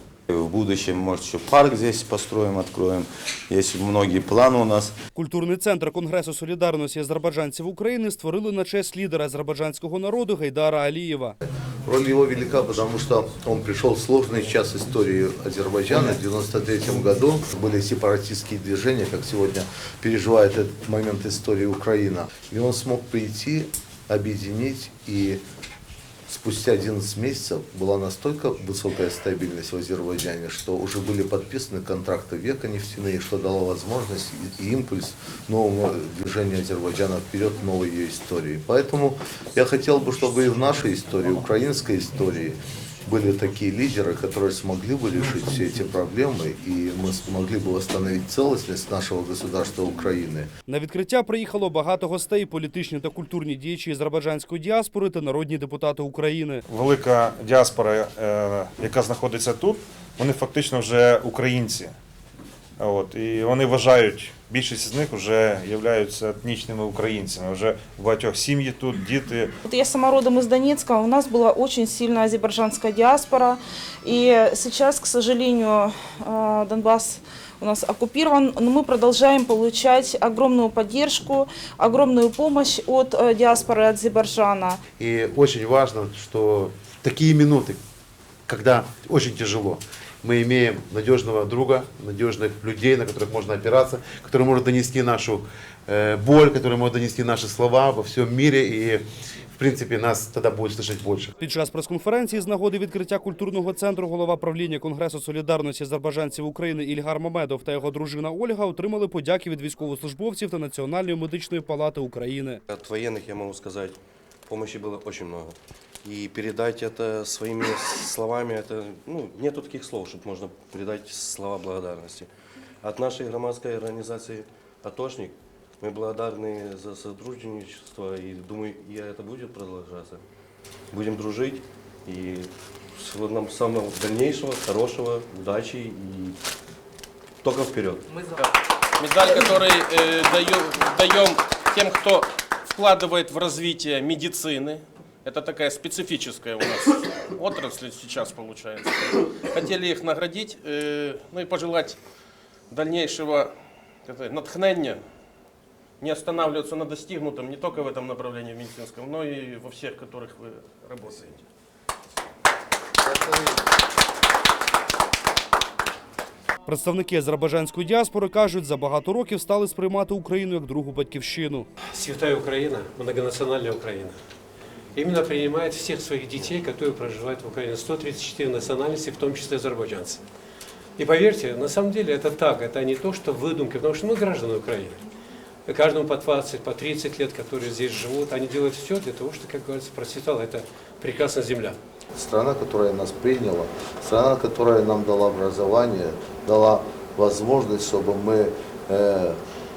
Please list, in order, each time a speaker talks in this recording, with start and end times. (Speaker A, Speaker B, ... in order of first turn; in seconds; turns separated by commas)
Speaker A: 0.3-5.0, Speaker B: 5.1-11.4, Speaker C: 11.8-25.4, Speaker C: 26.3-50.5, Speaker B: 50.7-56.6, Speaker D: 56.7-61.9, Speaker D: 62.8-69.6, Speaker E: 69.8-84.8, Speaker F: 84.9-87.8, Speaker F: 88.5-99.0, Speaker F: 99.6-101.3, Speaker B: 101.4-112.6, Speaker G: 112.7-122.3, Speaker G: 122.8-130.2, Speaker G: 130.9-136.4, Speaker G: 137.4-138.0, Speaker H: 139.0-152.0, Speaker H: 152.7-153.5, Speaker H: 154.1-155.0, Speaker H: 156.0-161.4, Speaker B: 166.7-171.7, Speaker I: 171.9-174.2, Speaker I: 174.9-180.2, Speaker I: 181.0-185.0, Speaker I: 185.7-191.8, Speaker C: 192.2-199.4